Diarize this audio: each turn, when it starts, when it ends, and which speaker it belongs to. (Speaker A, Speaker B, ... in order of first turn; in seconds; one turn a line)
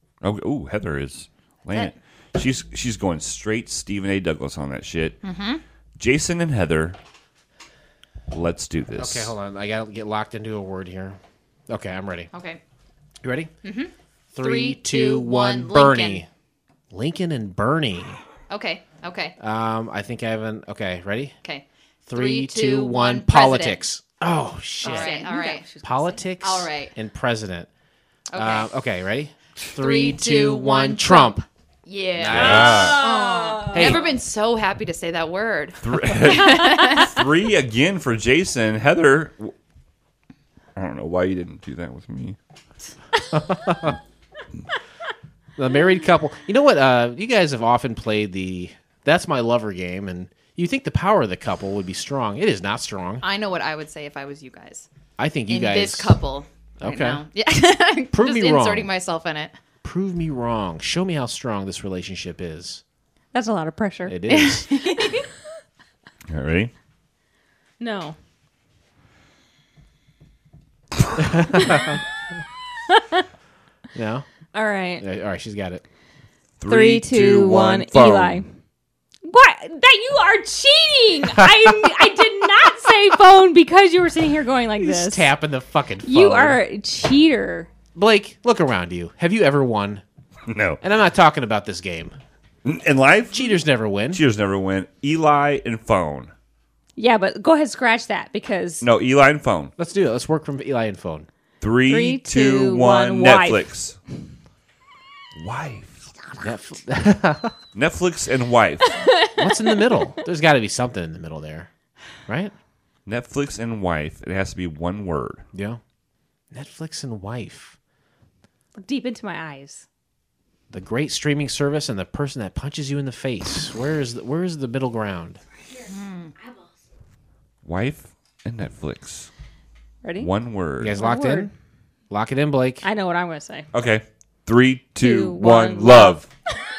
Speaker A: 0.2-5.2
Speaker B: 5.2-5.6
Speaker A: 6.0-7.0
Speaker A: 8.3-9.3
Speaker C: 9.0-12.3
Speaker B: 12.3-12.6
Speaker C: 13.2-13.5
Speaker B: 13.6-16.2
Speaker C: 14.3-16.3
Speaker C: 16.9-18.2
Speaker B: 18.5-19.4
Speaker C: 19.4-21.4
Speaker B: 21.4-23.8
Speaker C: 22.1-25.1
Speaker D: 24.8-26.2
Speaker B: 24.8-25.6
Speaker C: 25.8-27.7
Speaker B: 26.4-26.9
Speaker B: 28.3-28.7
Speaker C: 28.3-31.4
Speaker B: 29.6-37.2
Speaker C: 32.2-33.0
Speaker A: 32.2-33.0
Speaker D: 32.7-34.0
Speaker C: 33.7-34.1
Speaker A: 35.8-39.5
Speaker D: 36.3-37.0
Speaker A: 40.8-42.4
Speaker C: 43.3-44.0
Speaker C: 45.5-53.2
Speaker B: 53.2-54.9
Speaker C: 55.2-56.2
Speaker B: 55.5-59.5
Speaker C: 56.8-57.2
Speaker C: 58.1-58.9
Speaker C: 59.8-62.8
Speaker D: 63.3-65.3
Speaker C: 64.1-64.7
Speaker B: 64.4-65.2
Speaker A: 66.3-66.7
Speaker D: 67.8-68.2
Speaker C: 71.2-72.0
Speaker D: 71.6-71.9
Speaker D: 72.9-73.2
Speaker C: 73.9-74.3
Speaker D: 74.5-75.0
Speaker C: 75.0-75.8
Speaker A: 76.6-78.4
Speaker D: 76.7-78.5
Speaker D: 79.2-85.3
Speaker C: 84.8-86.6
Speaker D: 86.0-87.7
Speaker C: 88.0-90.0
Speaker A: 90.5-90.8
Speaker C: 90.8-92.2
Speaker A: 92.6-93.5
Speaker C: 93.3-94.2
Speaker A: 94.1-96.3
Speaker D: 97.0-98.9
Speaker A: 98.8-99.7
Speaker C: 99.8-101.3
Speaker A: 101.6-104.0
Speaker D: 101.9-103.6
Speaker A: 105.3-106.0
Speaker C: 106.4-107.5
Speaker A: 107.7-109.0
Speaker D: 108.9-110.0
Speaker C: 109.4-111.7
Speaker C: 112.3-112.5
Speaker A: 113.0-115.5
Speaker C: 115.5-115.8
Speaker C: 116.5-117.8
Speaker D: 118.8-119.8
Speaker C: 120.7-125.4
Speaker B: 125.9-126.3
Speaker A: 127.6-129.3
Speaker D: 130.0-130.3
Speaker A: 130.2-130.9
Speaker C: 130.8-131.5
Speaker D: 130.9-131.5
Speaker C: 132.1-132.8
Speaker D: 132.8-133.7
Speaker A: 133.7-136.2
Speaker D: 135.0-136.2